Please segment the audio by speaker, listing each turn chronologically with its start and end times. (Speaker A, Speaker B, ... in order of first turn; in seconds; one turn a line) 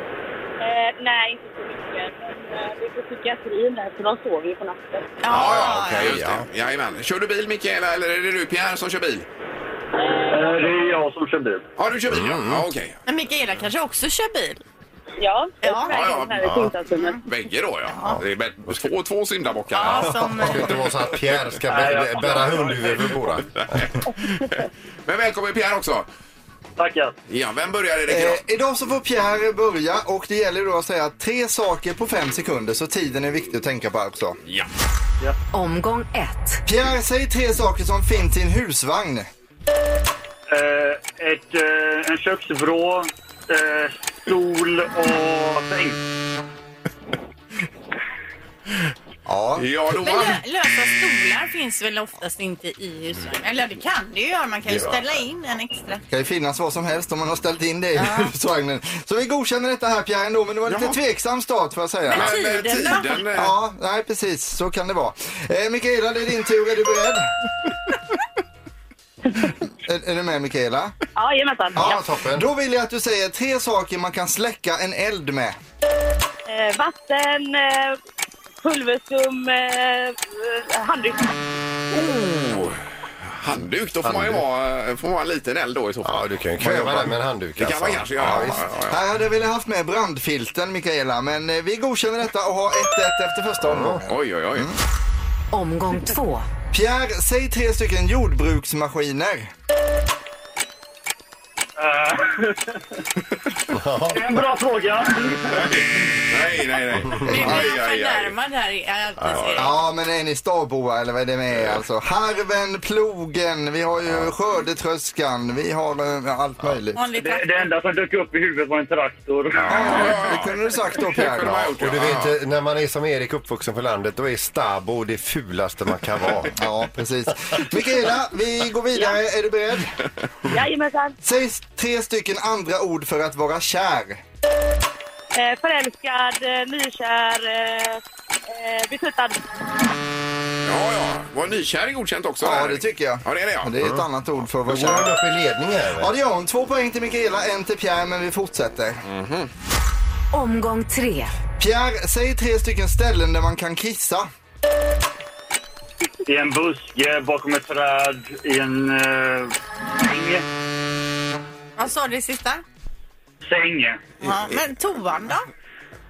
Speaker A: 0.6-5.1
Speaker B: 5.2-6.2
Speaker C: 5.3-9.3
Speaker D: 5.3-6.5
Speaker A: 9.9-11.0
Speaker E: 10.3-11.6
Speaker C: 11.8-13.0
Speaker D: 12.1-12.7
Speaker B: 13.1-14.6
Speaker A: 15.2-17.2
Speaker B: 15.6-16.1
Speaker C: 15.9-16.5
Speaker D: 16.4-16.7
Speaker C: 17.2-20.5
Speaker B: 17.9-18.2
Speaker B: 19.7-20.8
Speaker D: 20.4-23.8
Speaker E: 21.7-22.8
Speaker C: 23.4-26.1
Speaker E: 26.8-27.1
Speaker C: 27.3-28.4
Speaker F: 28.1-34.4
Speaker C: 34.4-34.7
Speaker G: 35.5-36.6
Speaker F: 36.7-39.3
Speaker E: 40.5-46.0
Speaker F: 49.3-49.6
Speaker C: 49.6-50.4
Speaker B: 50.0-56.0
Speaker F: 56.1-62.3
Speaker B: 58.0-58.3
Speaker C: 60.7-61.0
Speaker C: 62.1-63.5
Speaker B: 62.1-63.2
Speaker F: 63.3-67.3
Speaker F: 69.9-70.9
Speaker A: 71.2-71.9
Speaker D: 71.8-72.5
Speaker F: 71.8-75.6
Speaker A: 76.5-78.0
Speaker A: 78.6-81.3
Speaker C: 81.9-89.0
Speaker D: 84.0-84.4
Speaker D: 86.0-88.6
Speaker F: 88.9-94.8
Speaker D: 93.7-94.0
Speaker C: 94.1-94.7
Speaker G: 95.5-96.5
Speaker F: 96.7-99.5
Speaker E: 101.8-102.8
Speaker D: 103.7-104.4
Speaker E: 104.1-105.8
Speaker C: 105.5-108.3
Speaker B: 107.3-109.8
Speaker C: 109.3-109.7
Speaker F: 109.6-117.0
Speaker D: 114.0-114.3
Speaker B: 117.0-117.7
Speaker E: 117.1-119.7
Speaker F: 119.7-121.6
Speaker C: 119.8-122.3
Speaker D: 121.4-126.5
Speaker F: 126.6-130.0
Speaker A: 128.9-129.2
Speaker A: 130.5-131.2
Speaker F: 131.2-134.2
Speaker A: 135.3-139.4
Speaker C: 140.7-143.7
Speaker F: 142.4-145.2
Speaker D: 144.7-146.1
Speaker F: 146.0-149.0
Speaker C: 149.1-149.5
Speaker G: 150.3-151.3
Speaker F: 151.6-154.3
Speaker E: 156.3-160.4
Speaker B: 161.8-162.6
Speaker E: 163.4-164.1
Speaker B: 164.2-165.5